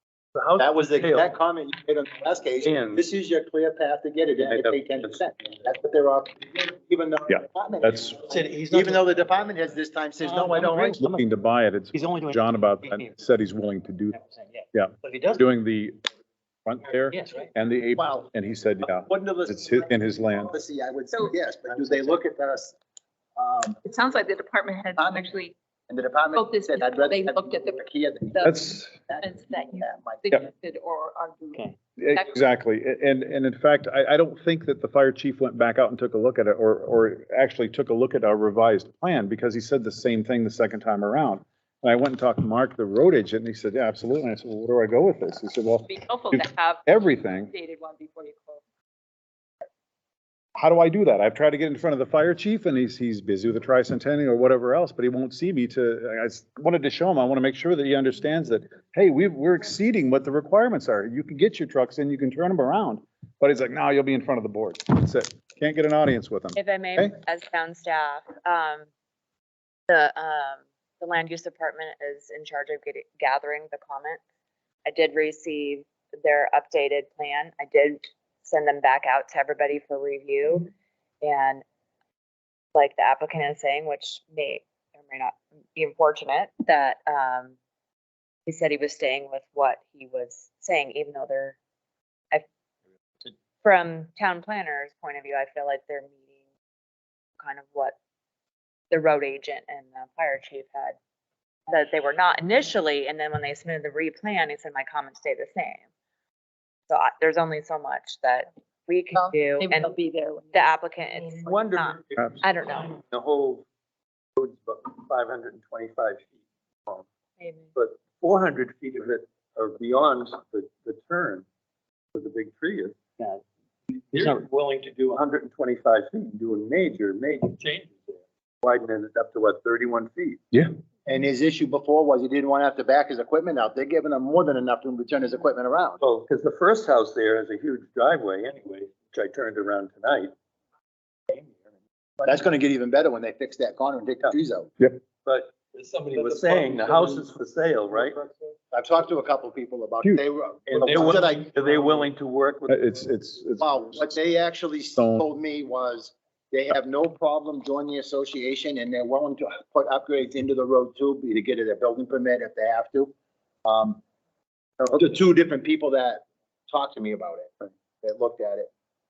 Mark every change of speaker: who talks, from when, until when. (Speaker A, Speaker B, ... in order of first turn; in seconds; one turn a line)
Speaker A: 0.3-1.3
Speaker B: 0.6-11.0
Speaker A: 2.6-3.0
Speaker A: 4.3-5.2
Speaker C: 7.3-8.2
Speaker D: 8.2-9.4
Speaker D: 10.2-11.3
Speaker C: 11.0-14.2
Speaker D: 11.9-13.2
Speaker D: 14.1-15.4
Speaker C: 14.7-16.0
Speaker C: 16.6-20.5
Speaker D: 17.1-17.5
Speaker B: 17.9-18.3
Speaker B: 18.9-19.9
Speaker B: 20.4-22.7
Speaker B: 23.4-23.8
Speaker E: 23.8-25.5
Speaker B: 25.0-25.3
Speaker B: 25.9-28.5
Speaker E: 26.3-27.8
Speaker C: 28.4-29.0
Speaker B: 29.1-30.4
Speaker E: 29.2-32.3
Speaker D: 31.5-31.8
Speaker C: 32.0-47.5
Speaker E: 45.9-48.6
Speaker C: 50.5-67.2
Speaker F: 66.5-68.9
Speaker F: 69.9-74.2
Speaker F: 74.8-80.7
Speaker F: 81.2-81.6
Speaker F: 82.7-87.5
Speaker F: 88.5-91.5
Speaker F: 93.6-96.2
Speaker F: 97.4-97.9
Speaker F: 98.9-101.0
Speaker F: 101.7-105.8
Speaker F: 106.9-109.9
Speaker E: 109.2-110.6
Speaker F: 110.5-112.9
Speaker A: 111.4-113.6
Speaker A: 114.3-116.3
Speaker F: 117.4-117.7
Speaker A: 117.8-121.4
Speaker A: 122.1-123.0
Speaker D: 124.1-124.5
Speaker A: 124.1-130.4
Speaker B: 131.1-136.0
Speaker A: 136.0-140.3
Speaker B: 142.2-144.7
Speaker A: 145.2-148.2
Speaker B: 148.7-151.6
Speaker A: 150.7-152.8
Speaker C: 152.7-153.9
Speaker B: 153.6-163.1
Speaker C: 154.9-155.3
Speaker B: 163.6-164.0
Speaker B: 164.8-168.7